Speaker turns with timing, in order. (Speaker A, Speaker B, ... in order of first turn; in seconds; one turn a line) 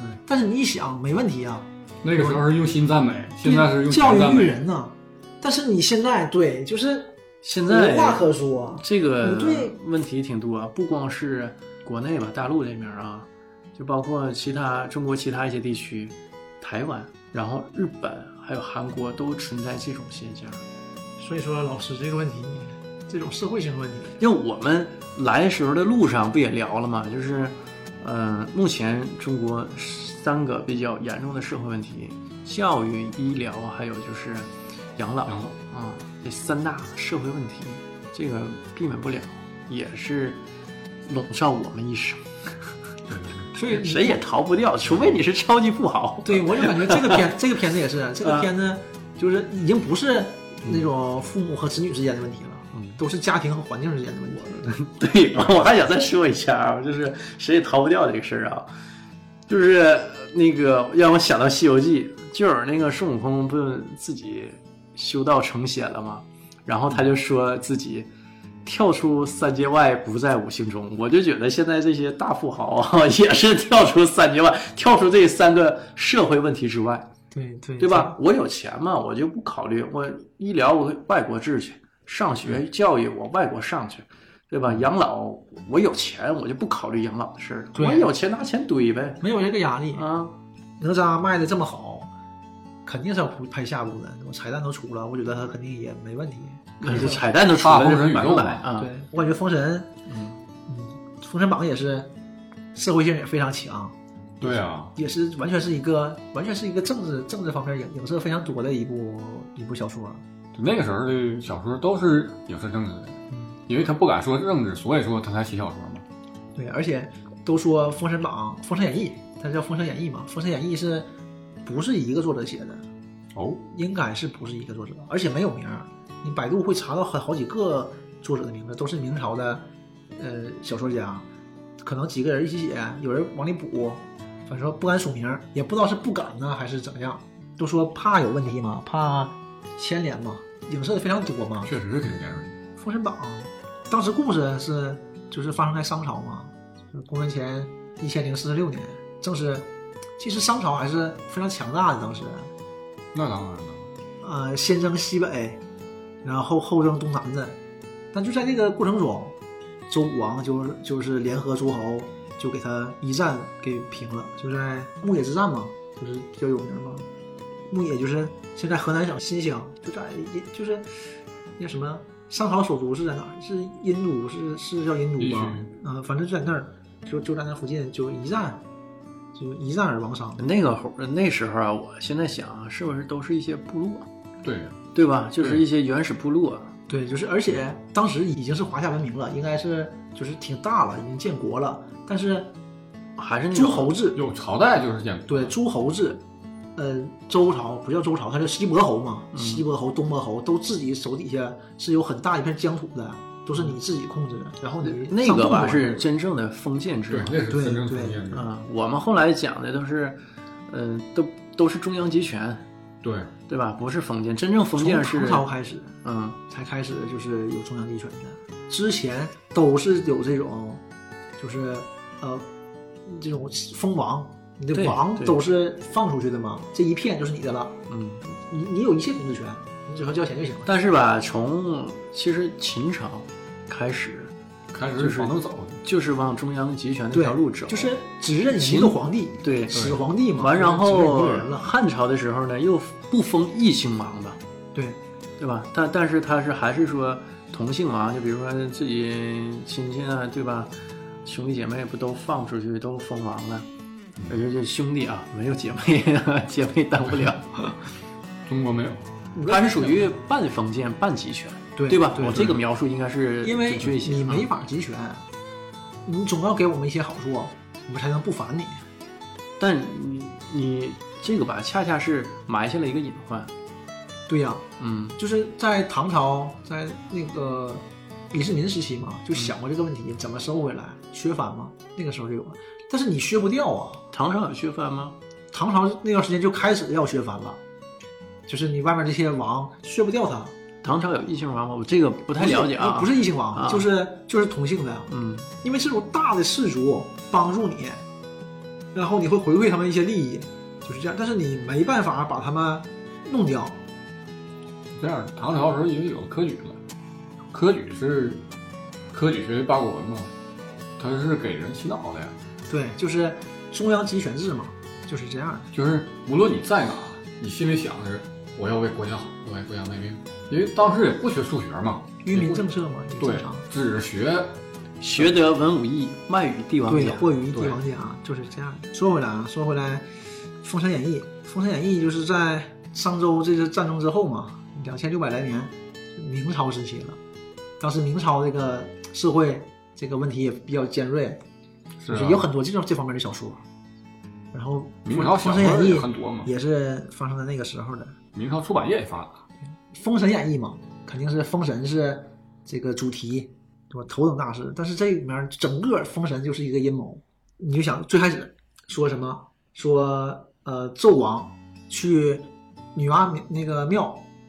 Speaker A: 0.3-2.4
Speaker B: 2.0-4.6
Speaker A: 3.4-7.1
Speaker C: 7.4-20.6
Speaker A: 7.7-9.8
Speaker A: 21.2-24.2
Speaker C: 24.2-40.4
Speaker B: 35.3-35.5
Speaker C: 41.0-42.2
Speaker B: 43.1-43.5
Speaker C: 43.5-47.3
Speaker A: 43.7-44.1
Speaker A: 46.2-54.7
Speaker C: 48.2-48.5
Speaker C: 52.7-53.0
Speaker C: 54.6-58.7
Speaker C: 59.5-68.1
Speaker C: 68.6-77.1
Speaker A: 77.3-78.2
Speaker C: 77.8-89.2
Speaker A: 87.8-88.1
Speaker A: 89.2-90.1
Speaker C: 89.9-90.3
Speaker A: 90.8-92.1
Speaker A: 92.8-97.2
Speaker C: 96.8-98.9
Speaker B: 96.9-98.7
Speaker A: 98.8-99.9
Speaker C: 100.1-100.4
Speaker A: 100.7-102.1
Speaker A: 102.7-110.2
Speaker B: 104.4-104.9
Speaker B: 110.5-116.0
Speaker A: 116.5-121.1
Speaker A: 121.6-122.8
Speaker B: 123.3-123.6
Speaker A: 123.7-131.3
Speaker A: 131.8-142.2
Speaker B: 141.6-142.6
Speaker A: 142.8-149.7
Speaker A: 150.2-152.5
Speaker B: 153.1-153.9
Speaker A: 154.2-155.6
Speaker A: 156.2-157.6
Speaker A: 158.1-159.4
Speaker A: 159.9-167.1
Speaker A: 167.7-178.6
Speaker B: 175.2-175.7
Speaker A: 179.3-180.4
Speaker C: 180.4-184.1
Speaker B: 184.4-184.8
Speaker C: 184.9-186.7
Speaker A: 186.9-192.5
Speaker C: 193.2-193.9
Speaker A: 193.5-194.2
Speaker B: 194.1-195.5
Speaker A: 195.3-196.2
Speaker A: 196.8-206.1
Speaker C: 199.3-199.6
Speaker C: 204.8-207.4
Speaker B: 207.1-208.5
Speaker A: 207.5-208.2
Speaker C: 208.3-212.7
Speaker B: 213.0-213.3
Speaker C: 213.5-215.5
Speaker A: 214.8-216.0
Speaker C: 216.0-216.4
Speaker A: 216.5-220.8
Speaker A: 221.4-222.4
Speaker A: 223.1-230.7
Speaker C: 224.7-225.4
Speaker C: 227.9-228.2
Speaker C: 230.7-234.3
Speaker B: 234.7-235.8
Speaker C: 234.9-237.9
Speaker A: 237.1-241.7
Speaker C: 238.5-244.4
Speaker A: 244.8-245.0
Speaker C: 245.4-250.7
Speaker C: 251.2-253.7
Speaker C: 254.3-257.5
Speaker B: 258.5-259.0
Speaker A: 259.4-259.9
Speaker C: 259.5-264.5
Speaker A: 261.8-262.6
Speaker B: 262.2-262.6
Speaker A: 263.4-265.3
Speaker A: 266.1-268.8
Speaker C: 269.6-273.5
Speaker A: 274.3-274.7
Speaker C: 274.8-275.2
Speaker A: 275.2-284.0
Speaker C: 284.1-285.2
Speaker A: 285.5-287.6
Speaker A: 288.5-290.6
Speaker C: 290.8-293.9
Speaker A: 292.4-295.1
Speaker C: 295.1-295.5
Speaker A: 295.6-298.0
Speaker A: 298.9-303.8
Speaker B: 304.9-306.8
Speaker B: 307.5-308.4
Speaker B: 309.1-310.3
Speaker B: 311.0-312.4
Speaker A: 312.7-315.7
Speaker B: 315.7-322.6
Speaker A: 322.2-323.6
Speaker B: 323.2-324.6
Speaker C: 325.0-327.3
Speaker A: 326.9-330.1
Speaker A: 330.6-337.2
Speaker A: 337.8-341.4
Speaker B: 342.0-342.4
Speaker A: 342.1-343.6
Speaker A: 344.5-348.2
Speaker B: 345.1-346.5
Speaker B: 348.4-349.4
Speaker A: 349.9-364.2